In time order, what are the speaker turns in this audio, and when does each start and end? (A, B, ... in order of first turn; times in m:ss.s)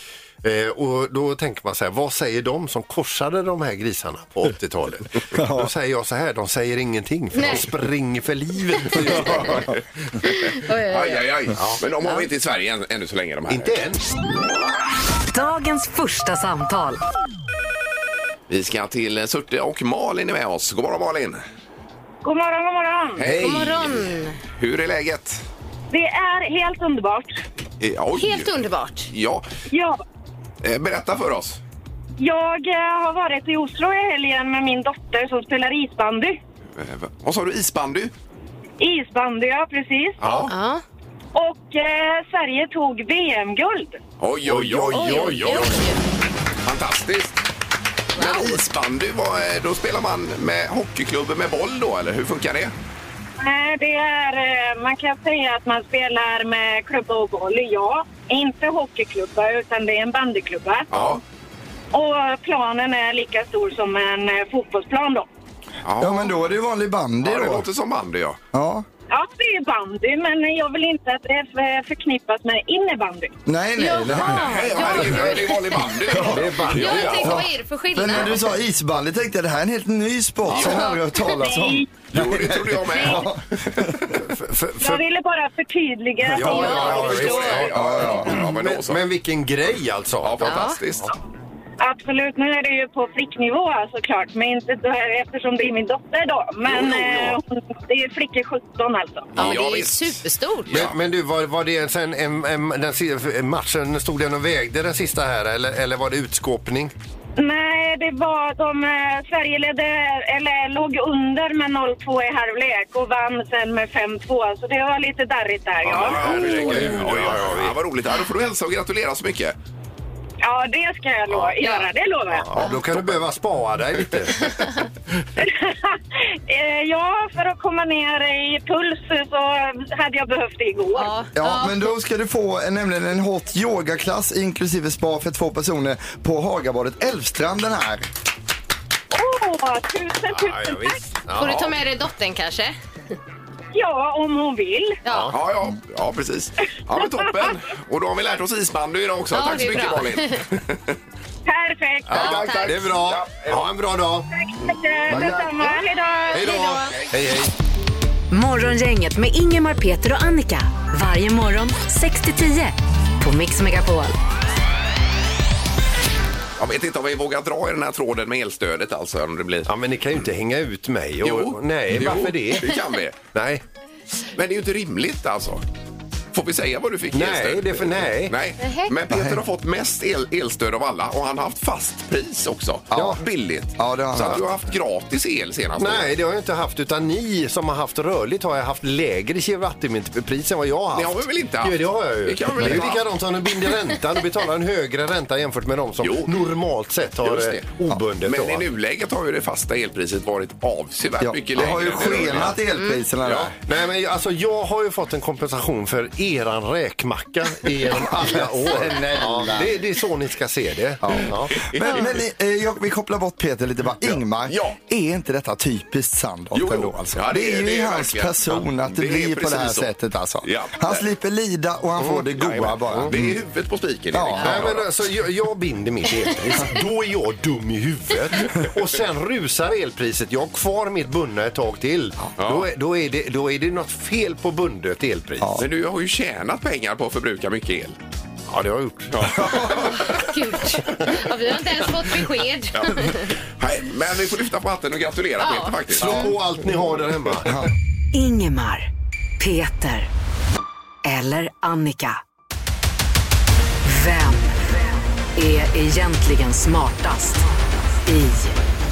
0:00.4-0:09.8 A
0:05.3-0:05.7 B
0:07.3-0:07.7 C
0:09.0-0:13.8 D
0:10.6-0:11.3 C
0:11.6-0:11.8 A
0:13.5-0:14.1 A
0:15.3-0:17.0 E
0:18.5-0:21.4 D
0:22.2-0:23.3 F
0:23.2-0:25.4 D
0:23.2-0:23.9 A
0:23.4-0:24.4 C
0:25.9-0:27.4 F
0:27.8-0:28.6 D
0:28.2-0:29.1 C
0:29.1-0:29.4 D
0:29.7-0:30.0 F
0:30.6-0:31.6 D
0:32.2-0:36.4 F
0:36.8-0:38.1 D
0:38.8-0:40.2 F
0:40.2-0:40.5 D
0:40.2-0:40.5 A
0:40.5-0:40.8 C
0:41.3-0:44.0 F
0:44.2-0:45.8 D
0:44.5-0:45.8 A
0:44.9-0:46.0 C
0:46.6-0:47.4 D
0:48.2-0:48.6 C
0:48.2-0:52.7 D
0:53.4-1:00.9 F
1:00.9-1:01.2 D
1:00.9-1:01.2 A
1:01.9-1:05.3 F
1:05.8-1:06.4 D
1:06.0-1:07.7 B
1:07.2-1:08.4 D
1:08.5-1:08.9 B
1:09.1-1:13.4 F
1:13.5-1:15.3 B
1:13.8-1:16.0 C
1:14.1-1:17.3 D
1:16.0-1:24.2 B
1:16.2-1:17.4 A
1:16.7-1:18.3 C
1:20.5-1:20.9 D
1:20.8-1:21.9 F
1:22.1-1:23.9 D
1:24.1-1:25.0 A
1:24.8-1:27.7 F
1:26.3-1:30.7 A
1:26.4-1:27.6 C
1:26.5-1:29.0 D
1:27.7-1:28.5 B
1:30.2-1:31.1 D
1:30.4-1:30.8 C
1:31.8-1:39.3 F
1:36.6-1:37.4 D
1:39.4-1:41.0 D
1:39.4-1:40.8 C
1:40.7-1:46.9 A
1:47.4-1:56.9 F
1:55.9-1:59.6 D
1:55.9-1:57.8 A
2:00.4-2:02.5 F
2:02.3-2:04.6 A
2:02.5-2:03.2 D
2:05.4-2:11.3 F
2:11.0-2:11.9 C
2:11.4-2:18.1 B
2:19.1-2:21.0 F
2:20.3-2:21.8 A
2:21.4-2:22.8 C
2:23.7-2:25.0 F
2:25.0-2:25.3 C
2:25.1-2:25.4 A
2:25.3-2:31.0 D
2:29.3-2:30.4 C
2:31.5-2:32.4 F
2:32.1-2:34.3 A
2:32.1-2:33.7 D
2:32.1-2:32.9 C
2:34.3-2:36.8 F
2:35.1-2:35.4 A
2:35.2-2:36.9 C
2:36.3-2:37.5 A
2:38.3-2:44.1 E
2:46.6-2:49.7 D
2:49.7-2:52.8 A
2:51.2-2:53.2 D
2:53.3-2:53.6 A
2:54.4-2:55.6 D
2:56.3-3:06.1 D
2:57.1-2:58.4 A
2:58.6-2:58.9 C
2:59.1-2:59.4 B
3:02.9-3:03.2 B
3:03.0-3:03.2 A
3:03.8-3:04.4 B
3:05.8-3:18.7 A
3:10.9-3:13.0 D
3:12.6-3:13.0 B
3:16.0-3:16.4 D
3:17.2-3:17.7 D
3:18.2-3:22.6 D
3:21.2-3:23.5 B
3:22.8-3:23.0 C
3:23.2-3:23.5 D
3:23.6-3:31.7 A
3:27.9-3:29.8 B
3:31.0-3:43.4 B
3:31.5-3:32.1 D
3:34.0-3:34.8 D
3:36.5-3:39.9 D
3:40.4-3:41.1 D
3:42.0-3:42.3 A
3:42.4-3:44.9 D
3:44.1-3:44.6 B
3:44.4-3:55.6 A
3:52.4-3:52.7 D
3:55.6-3:58.0 D
3:58.5-3:59.5 A
3:59.1-4:00.3 D
3:59.4-3:59.9 B
4:00.0-4:03.3 C
4:02.7-4:06.4 D
4:05.4-4:06.3 C
4:06.0-4:07.6 A
4:08.1-4:10.1 E
4:11.0-4:12.2 E
4:13.8-4:14.6 E
4:15.4-4:17.4 E
4:18.0-4:18.6 E